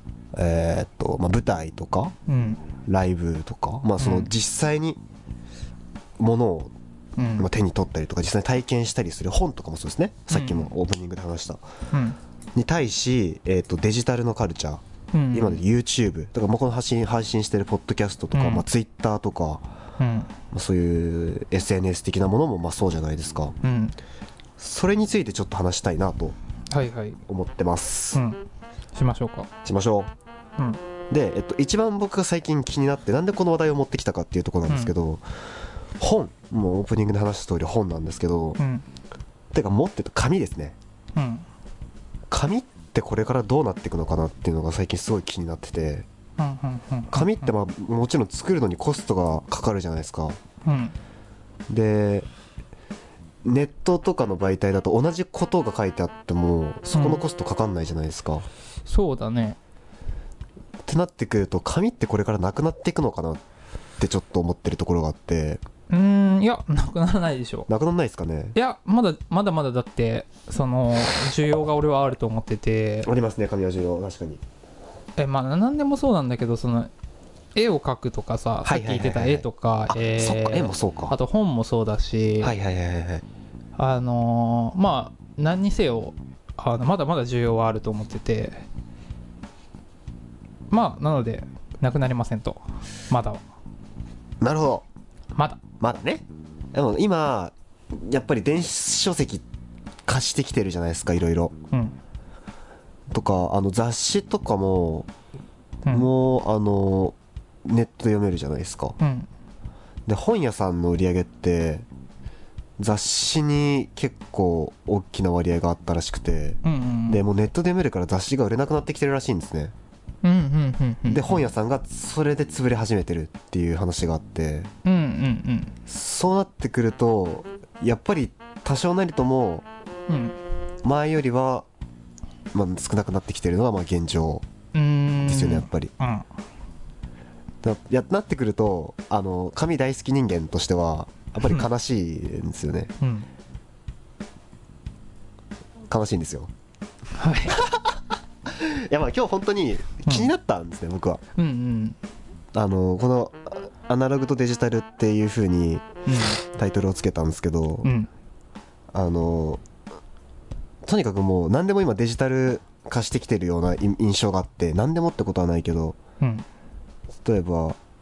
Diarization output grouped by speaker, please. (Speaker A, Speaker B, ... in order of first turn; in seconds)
Speaker A: 0.3-2.1, 2.9-5.0, 6.2-6.7, 7.4-11.6, 12.6-19.6, 20.5-23.6, 24.6-26.4, 27.3-28.2, 29.6-30.1, 31.1-35.2, 36.0-38.6, 39.5-40.8, 42.3-46.1, 47.1-50.4, 51.7-52.3, 53.4-58.5, 60.9-63.4, 64.0-65.6, 67.7-68.6, 73.0-74.4, 78.7-81.2, 82.4-83.2, 94.4-94.9, 95.8-99.5, 100.1-101.5, 103.1-105.1, 105.9-109.0, 110.1-111.9, 112.8-119.7, 121.1-124.7, 125.9-129.7, 130.8-131.7, 132.5-134.4, 135.2-135.9, 137.6-142.9, 145.9-146.5, 147.5-147.9, 148.5-151.2, 152.5-157.9, 158.9-159.6, 160.8-166.0, 167.2-167.8
Speaker B: 2.3-2.6, 4.0-4.3, 7.2-7.5, 10.3-10.7, 11.9-12.2, 15.1-15.6, 18.3-18.6, 20.0-20.3, 23.6-24.0, 26.7-27.2, 28.1-28.4, 28.9-29.5, 34.7-34.9, 38.6-38.9, 41.1-41.5, 46.4-47.5, 50.6-51.0, 56.9-57.2, 58.9-59.6, 65.9-67.7, 68.5-73.1, 75.2-76.9, 77.5-82.5, 83.8-88.7, 90.7-93.4, 95.3-95.6, 101.7-102.0, 109.0-109.3, 116.6-117.2, 120.2-121.4, 124.8-125.8, 130.1-130.4, 134.7-136.3, 143.0-143.3, 147.1-147.6, 151.3-152.0, 156.1-156.4, 157.8-158.1, 166.2-166.5